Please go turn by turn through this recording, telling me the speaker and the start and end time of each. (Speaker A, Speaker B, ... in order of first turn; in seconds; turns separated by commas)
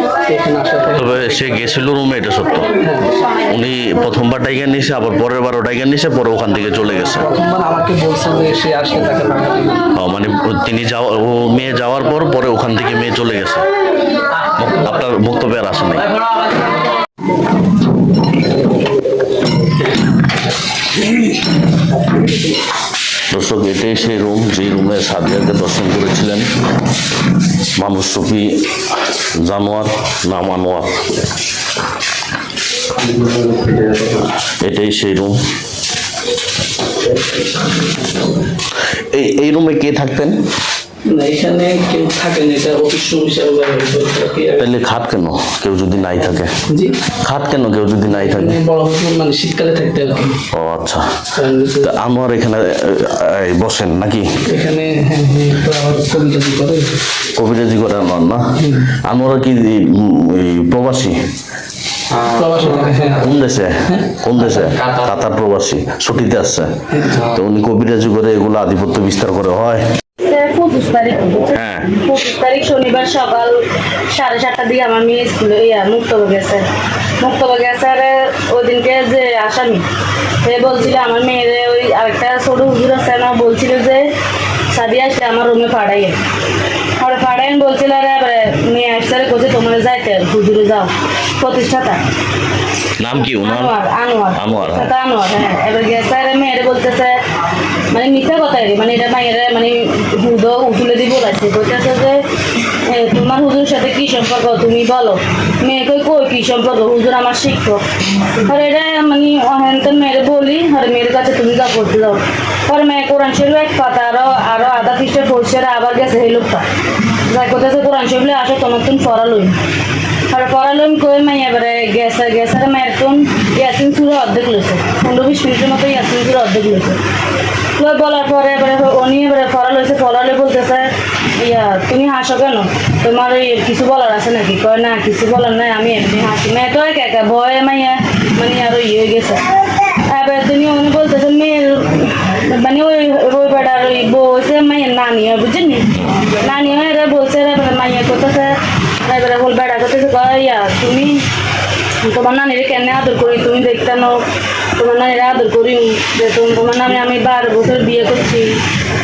Speaker A: 0.3-1.3, Speaker B: 1.0-2.7, Speaker A: 2.8-3.3, Speaker B: 3.4-7.3, Speaker A: 7.0-9.9, Speaker B: 10.0-13.7, Speaker B: 14.6-16.1, Speaker B: 23.3-26.5, Speaker B: 27.8-28.6, Speaker B: 29.1-31.1, Speaker A: 33.3-34.3, Speaker B: 34.6-35.3, Speaker B: 38.8-40.4, Speaker A: 41.1-44.7, Speaker B: 44.6-46.5, Speaker A: 46.7-47.0, Speaker B: 47.2-48.6, Speaker A: 48.1-50.4, Speaker B: 50.5-51.0, Speaker A: 51.4-51.9, Speaker B: 51.8-54.3, Speaker A: 54.5-56.9, Speaker B: 57.4-61.1, Speaker A: 62.2-63.3, Speaker B: 63.2-69.8, Speaker A: 66.9-67.2, Speaker C: 70.2-73.6, Speaker B: 71.5-72.0, Speaker C: 74.1-76.7, Speaker C: 77.2-79.8, Speaker C: 80.4-84.1, Speaker C: 84.7-86.2, Speaker C: 87.0-92.0, Speaker B: 93.0-93.7, Speaker C: 93.2-97.2, Speaker B: 94.4-94.9, Speaker C: 97.9-102.2, Speaker C: 102.9-107.8, Speaker C: 108.5-116.7, Speaker C: 117.3-119.6, Speaker C: 120.3-127.0, Speaker C: 127.8-139.4, Speaker C: 140.1-151.2, Speaker C: 152.0-154.2, Speaker C: 154.8-158.6